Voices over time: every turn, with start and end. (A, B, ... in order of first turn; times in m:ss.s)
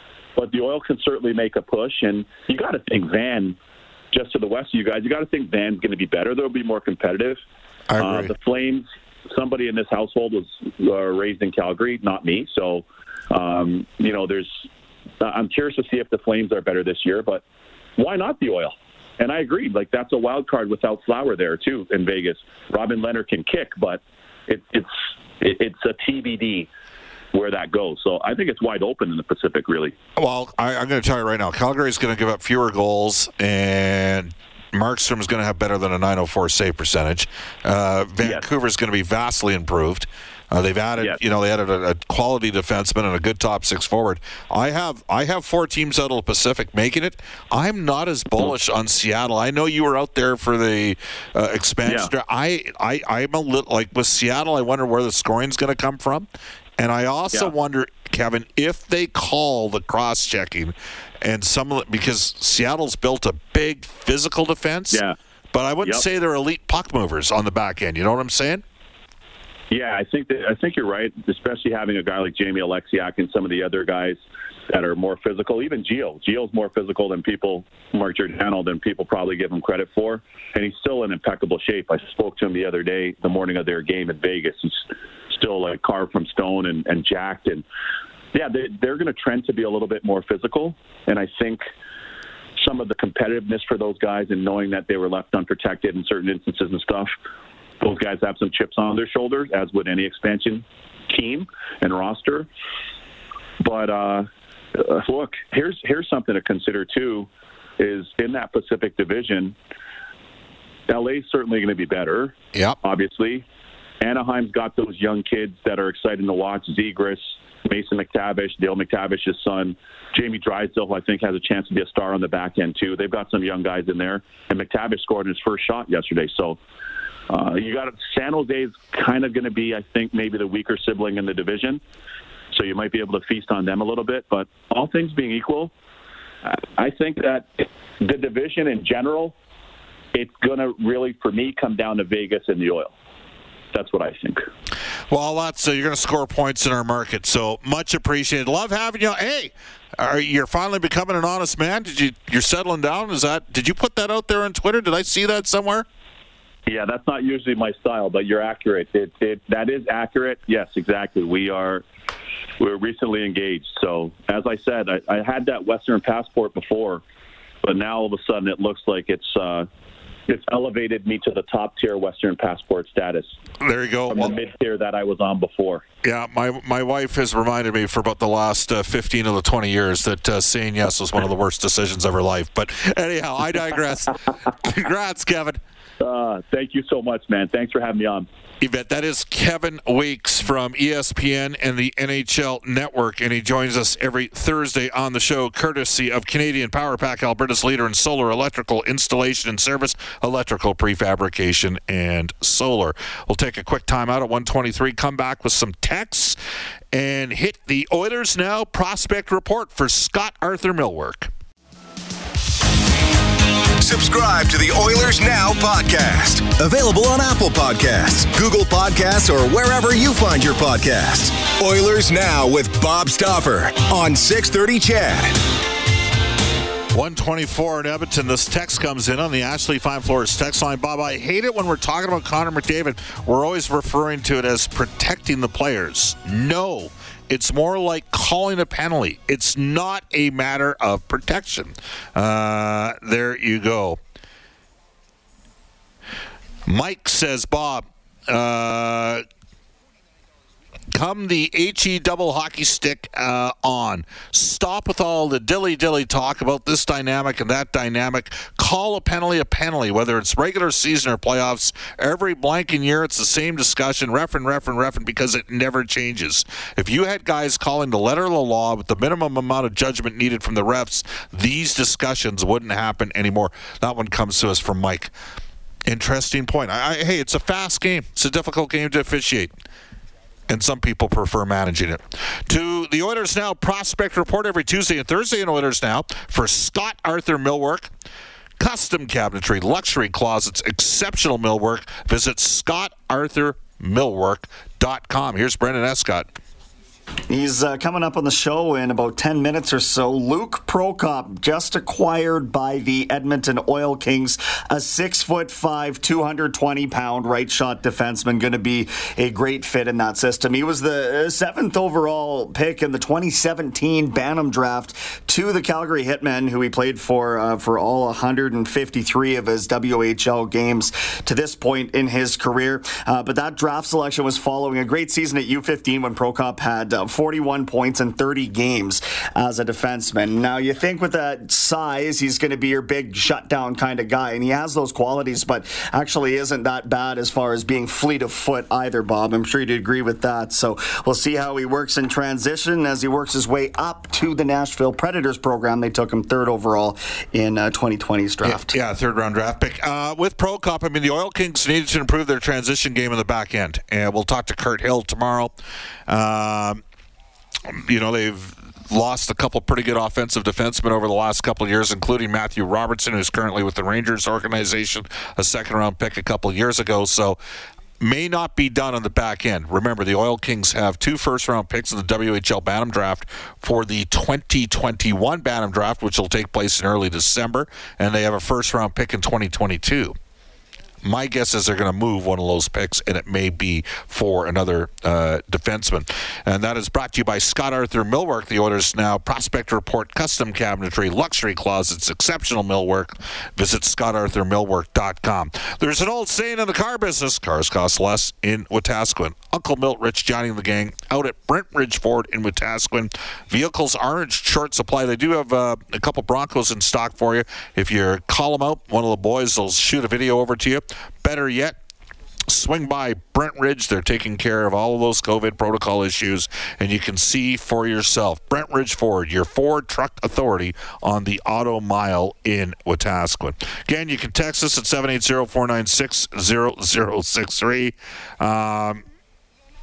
0:00.4-0:03.6 A
0:04.1-0:07.4 A
0:07.9-0:08.3 B
0:08.0-0:14.7 A
0:15.2-0:17.4 A
0:18.0-0:26.7 A
0:27.3-0:30.0 A
0:30.2-0:56.3 B
0:51.9-0:52.1 A
0:56.8-1:05.0 B
1:05.5-1:08.6 B
1:09.7-1:27.6 A
1:28.3-1:31.6 A
1:32.6-1:37.1 A
1:37.8-1:42.5 A
1:43.6-1:47.3 A
1:47.8-1:49.6 A
1:50.9-1:53.5 A
1:54.0-2:06.6 A
2:07.3-2:11.8 A
2:12.5-2:15.7 A
2:16.4-2:19.4 A
2:20.1-2:22.9 A
2:23.7-2:24.5 A
2:25.1-2:35.9 B
2:36.7-2:41.8 A
2:42.6-2:47.0 A
2:47.6-2:49.7 A
2:50.3-2:53.4 A
2:53.6-2:54.3 B
2:54.1-2:55.8 A
2:56.0-3:05.6 B
3:06.0-3:08.3 A
3:08.6-3:26.4 B
3:26.9-3:31.3 B
3:33.8-3:45.4 C
3:46.9-4:04.0 B
4:06.7-4:09.2 B
4:10.9-4:35.1 B
4:35.9-4:39.5 B
4:40.5-4:47.9 B
4:48.6-4:56.3 B
4:57.3-5:48.8 D
5:48.4-5:55.5 B
5:56.1-5:56.8 B
5:57.7-6:07.4 B
6:08.0-6:20.2 B
6:21.0-6:51.8 B
6:52.5-7:09.0 B